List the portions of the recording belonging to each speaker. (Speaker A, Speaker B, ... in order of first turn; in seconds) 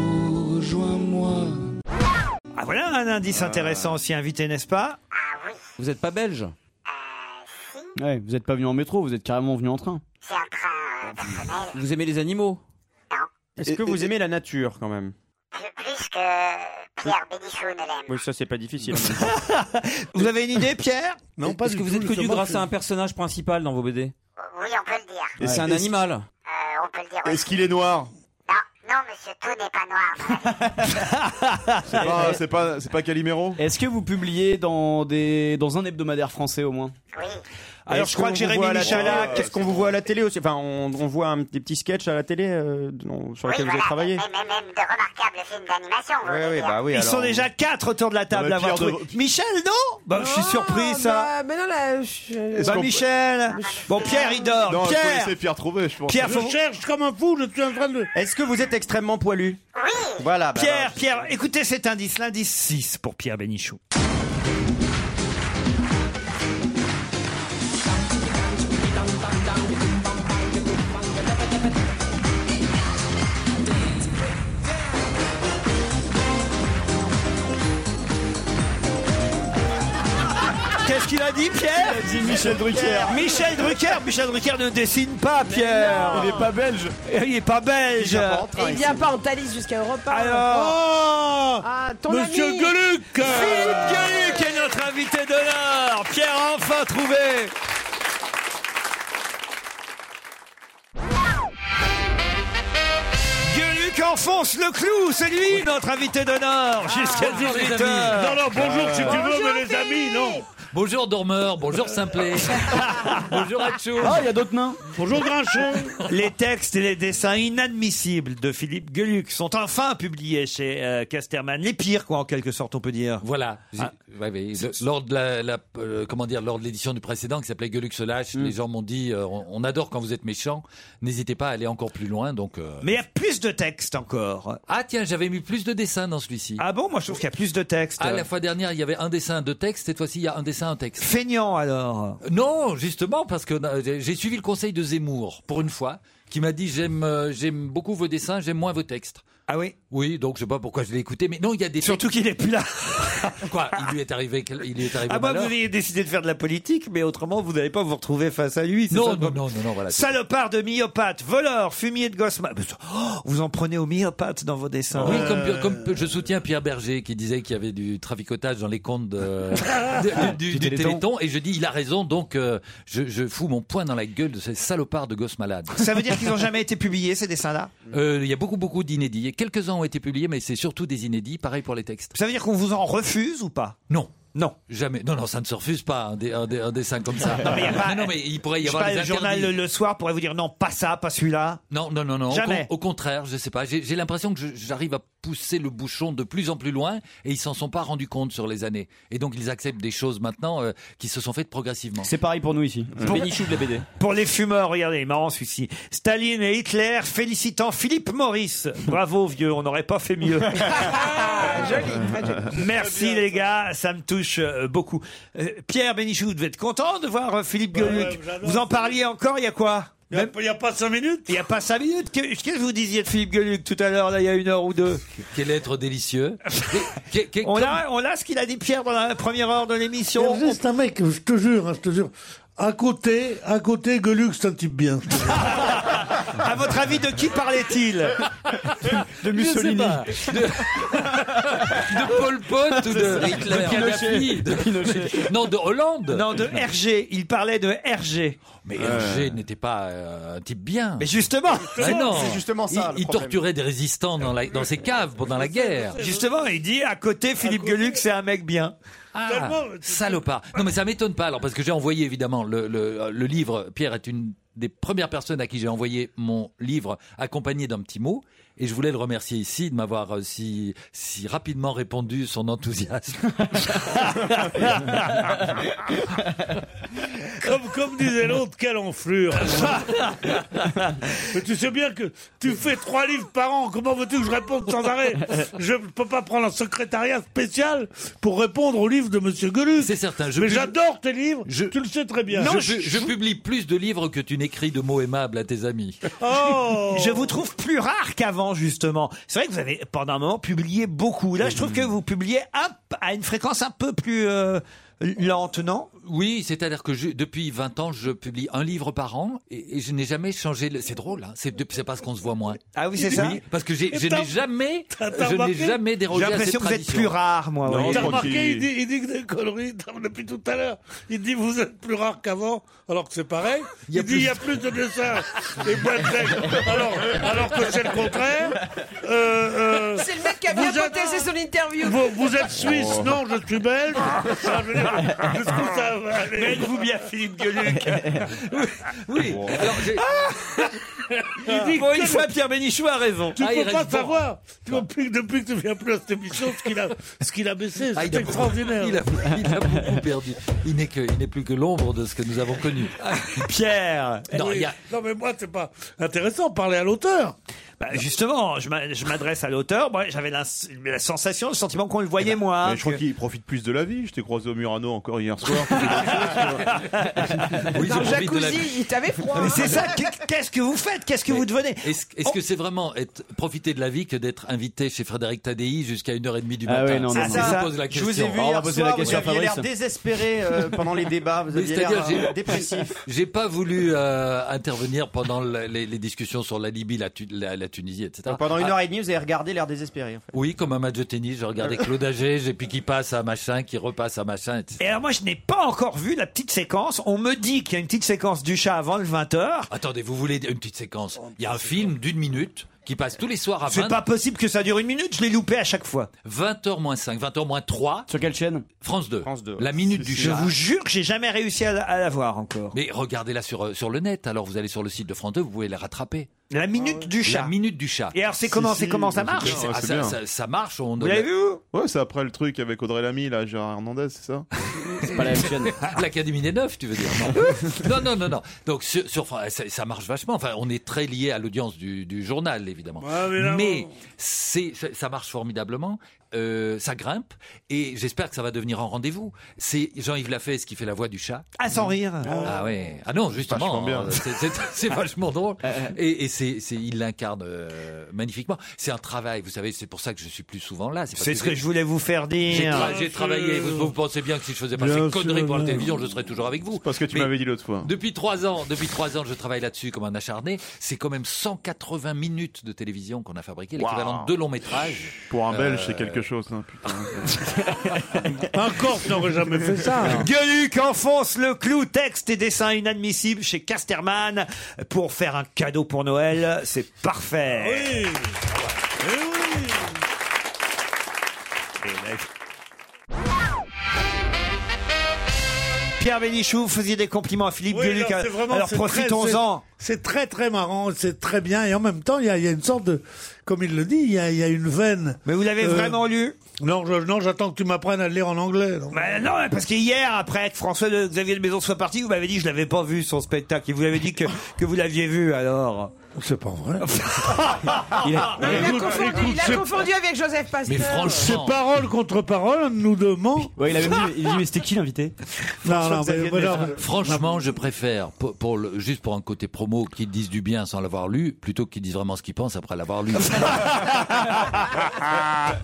Speaker A: 2.5-5.0, 19.2-21.2, 30.9-32.0, 37.9-39.5, 46.9-51.3, 52.6-55.3, 56.1-56.6, 60.5-63.8, 80.8-82.1, 83.0-86.4, 87.0-88.5, 90.1-90.8, 93.2-97.5, 103.5-108.5, 112.6-113.2, 116.1-123.2, 132.8-134.6, 136.6-138.3, 141.0-142.2, 149.5-149.8, 151.8-153.9, 155.0-165.4, 175.7-177.8, 182.1-183.8, 187.3-191.6, 192.3-192.7, 204.0-211.0, 212.5-220.3, 221.3-225.0, 227.4-230.6, 235.4-238.2, 246.1-248.5, 251.0-251.9, 256.0-258.7, 274.1-274.8, 292.3-293.1, 296.8-305.9, 312.7-313.4, 316.1-318.3, 336.3-340.8, 341.4-343.4, 353.1-354.5, 357.8-363.0, 365.8-367.0, 369.3-372.4, 377.1-377.7, 394.8-399.7, 403.7-406.1, 410.2-412.8, 416.5-417.5, 418.1-419.6, 421.0-421.6, 427.4-427.7, 441.6-442.4, 451.1-452.9, 470.0-478.0, 481.9-482.2, 486.0-489.6, 495.2-496.4, 498.9-505.9, 506.8-507.8, 523.4-524.2
Speaker B: 3.4-3.8, 25.4-25.9, 27.2-28.1, 31.9-33.6, 38.8-39.9, 48.3-49.1, 52.6-53.0, 54.6-56.3, 108.6-109.0, 248.8-249.4, 317.6-318.7, 332.5-333.2, 339.3-339.5, 362.6-366.8, 418.5-420.2, 421.7-424.5, 443.4-444.2, 456.8-457.9, 463.9-464.1, 465.2-467.3
Speaker C: 5.1-5.6, 6.9-7.9, 10.2-11.8, 15.5-18.1, 24.5-25.4, 26.4-27.6, 28.5-30.6, 37.1-37.4, 43.4-46.8, 53.6-54.2, 59.7-60.2
Speaker D: 5.8-6.5, 11.7-12.6, 21.4-24.1, 25.4-26.2, 203.0-203.8, 243.3-243.8
Speaker E: 8.0-10.0, 25.4-25.7, 32.0-32.4, 33.6-36.9, 81.7-83.1, 86.1-86.9, 114.0-114.8, 170.3-171.0, 202.0-203.7, 239.0-240.5, 242.7-245.4, 376.6-377.7, 378.2-379.7, 408.1-408.6, 425.0-425.8, 445.6-445.9, 508.0-508.7, 513.5-515.1
Speaker F: 13.6-15.1, 18.1-19.4, 37.9-44.2, 46.2-47.5, 58.1-59.6, 60.2-61.3, 82.2-83.3, 88.0-89.1, 252.0-253.4, 377.1-383.0, 388.2-390.3, 409.2-410.3
Speaker G: 21.4-22.7, 56.2-58.1, 90.5-94.1, 107.0-110.4, 114.9-116.0, 165.0-165.8, 210.9-211.9, 212.7-213.4, 217.7-219.0, 220.1-221.4, 230.1-235.6, 251.6-252.2, 255.3-256.2, 257.4-258.0, 259.2-260.2, 277.4-280.3, 281.3-292.6, 296.2-297.3, 312.9-313.4, 313.9-315.8, 317.9-336.8, 341.4-342.3, 343.4-349.0, 354.3-357.3, 416.8-417.1, 433.0-433.9, 452.5-453.9, 454.8-455.9, 468.5-470.3, 477.5-478.3, 479.0-479.9, 487.7-496.0, 496.6-499.3, 506.1-509.8, 511.0-513.5, 515.6-517.4
Speaker H: 50.1-52.9, 53.5-54.6, 85.7-86.3, 88.5-90.8, 91.6-92.8, 93.3-94.7, 109.4-109.8, 210.7-212.4, 329.9-332.4, 367.8-370.1, 508.4-511.2
Speaker I: 107.3-108.3, 110.7-114.2, 123.2-132.9, 134.7-136.6, 138.0-141.1, 142.2-149.2, 149.9-152.1, 153.4-155.5, 158.9-160.1, 165.0-175.9, 177.9-182.2, 183.9-189.5, 191.7-202.1, 225.3-227.8, 239.3-246.7, 248.6-251.1, 251.8-256.0, 259.1-273.8, 289.8-290.7, 291.4-291.7, 292.3-296.1, 301.6-301.9, 306.0-317.1, 323.9-324.6, 339.1-340.1, 343.4-344.9, 347.9-353.2, 354.3-354.7, 365.8-366.5, 367.7-368.8, 371.3-378.5, 381.5-388.8, 390.3-394.8, 399.7-404.0, 406.2-408.1, 408.8-410.5, 412.7-416.3, 417.2-418.2, 419.1-421.3, 425.0-441.5, 442.4-451.6, 452.5-466.3, 510.6-511.7, 516.6-523.8